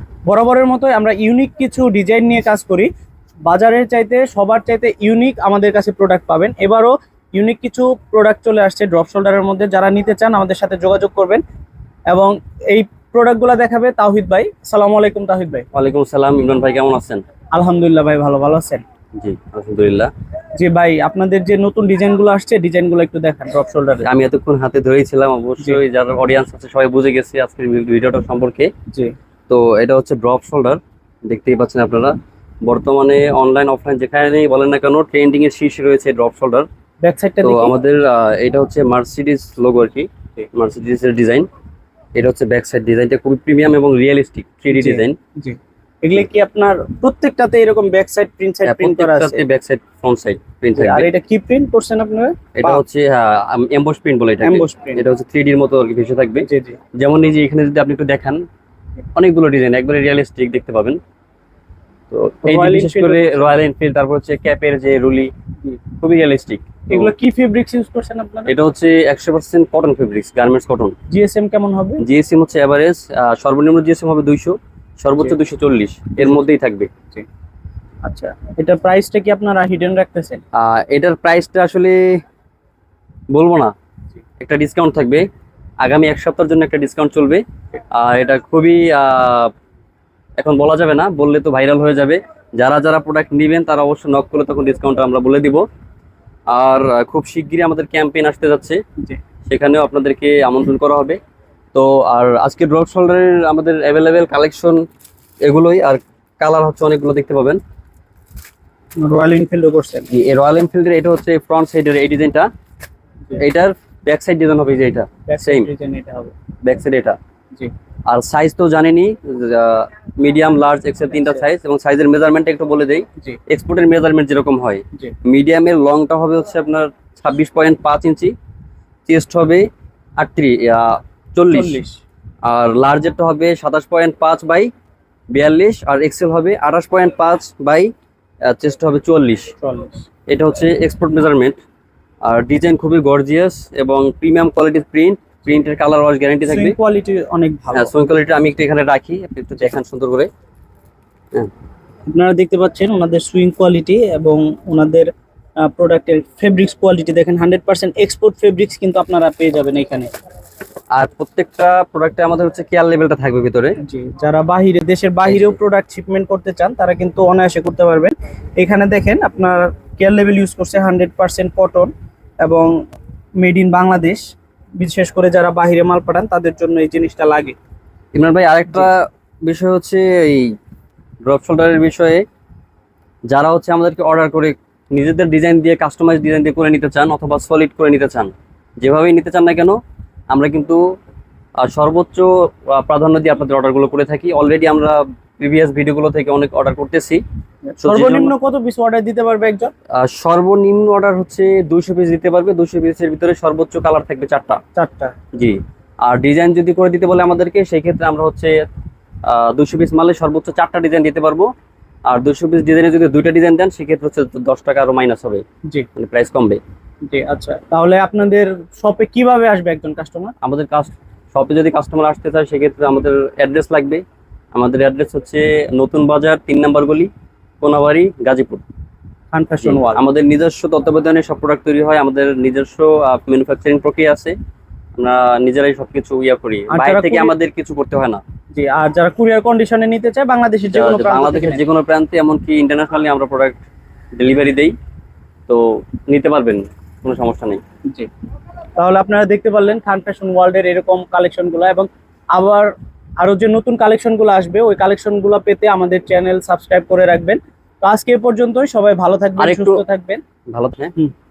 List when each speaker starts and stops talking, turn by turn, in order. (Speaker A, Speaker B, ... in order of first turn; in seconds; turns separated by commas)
Speaker A: 0.3-2.9, Speaker A: 3.5-11.4, Speaker A: 12.1-15.6, Speaker B: 15.7-17.2, Speaker A: 17.5-18.8, Speaker B: 19.2-20.1, Speaker A: 20.6-24.1, Speaker B: 24.0-28.7, Speaker B: 29.5-36.7, Speaker A: 37.0-37.7, Speaker B: 37.4-41.5, Speaker B: 42.1-45.1, Speaker A: 44.7-49.4, Speaker B: 48.6-51.1, Speaker A: 50.8-52.8, Speaker B: 52.5-56.5, Speaker A: 54.4-55.0, Speaker A: 56.4-56.8, Speaker B: 57.0-58.4, Speaker B: 59.1-61.0, Speaker B: 62.1-65.3, Speaker A: 62.5-63.6, Speaker B: 66.0-67.1, Speaker A: 66.9-68.5, Speaker B: 68.5-70.9, Speaker A: 71.1-72.0, Speaker B: 72.0-76.9, Speaker A: 78.0-80.4, Speaker B: 80.5-82.2, Speaker B: 83.3-83.7, Speaker B: 84.4-85.2, Speaker B: 85.8-87.4, Speaker B: 87.9-89.5, Speaker B: 90.4-95.6, Speaker B: 96.5-98.8, Speaker B: 99.5-101.2, Speaker B: 101.7-104.8, Speaker B: 105.4-107.6, Speaker A: 109.0-110.1, Speaker B: 110.1-112.5, Speaker B: 113.4-115.7, Speaker A: 115.3-116.3, Speaker B: 116.6-117.2, Speaker B: 118.1-128.3, Speaker A: 121.1-121.4, Speaker B: 129.1-129.7, Speaker B: 130.2-131.8, Speaker A: 131.5-132.0, Speaker B: 132.4-134.7, Speaker B: 135.3-137.9, Speaker B: 138.5-139.5, Speaker A: 139.6-140.1, Speaker B: 140.3-141.6, Speaker B: 142.2-146.8, Speaker A: 146.5-147.9, Speaker B: 147.7-150.3, Speaker A: 152.1-155.1, Speaker A: 155.6-160.1, Speaker B: 160.9-163.8, Speaker A: 163.8-171.9, Speaker B: 165.3-165.6, Speaker A: 172.4-172.7, Speaker A: 173.4-174.2, Speaker A: 174.8-177.5, Speaker B: 178.1-180.5, Speaker B: 181.2-182.2, Speaker B: 183.3-189.8, Speaker B: 190.3-190.8, Speaker B: 191.6-197.2, Speaker A: 197.7-199.7, Speaker B: 197.8-198.3, Speaker B: 200.0-204.6, Speaker A: 204.8-205.1, Speaker B: 205.3-208.6, Speaker B: 209.2-211.5, Speaker B: 212.1-215.4, Speaker B: 215.9-216.6, Speaker A: 217.1-220.3, Speaker B: 220.4-224.0, Speaker B: 224.5-227.1, Speaker B: 227.6-228.6, Speaker A: 229.3-230.0, Speaker B: 229.6-234.3, Speaker B: 234.9-238.2, Speaker A: 236.7-237.3, Speaker A: 238.5-241.6, Speaker B: 240.7-243.6, Speaker B: 244.2-244.7, Speaker B: 245.5-247.6, Speaker A: 248.8-260.2, Speaker B: 259.4-259.8, Speaker B: 260.5-260.9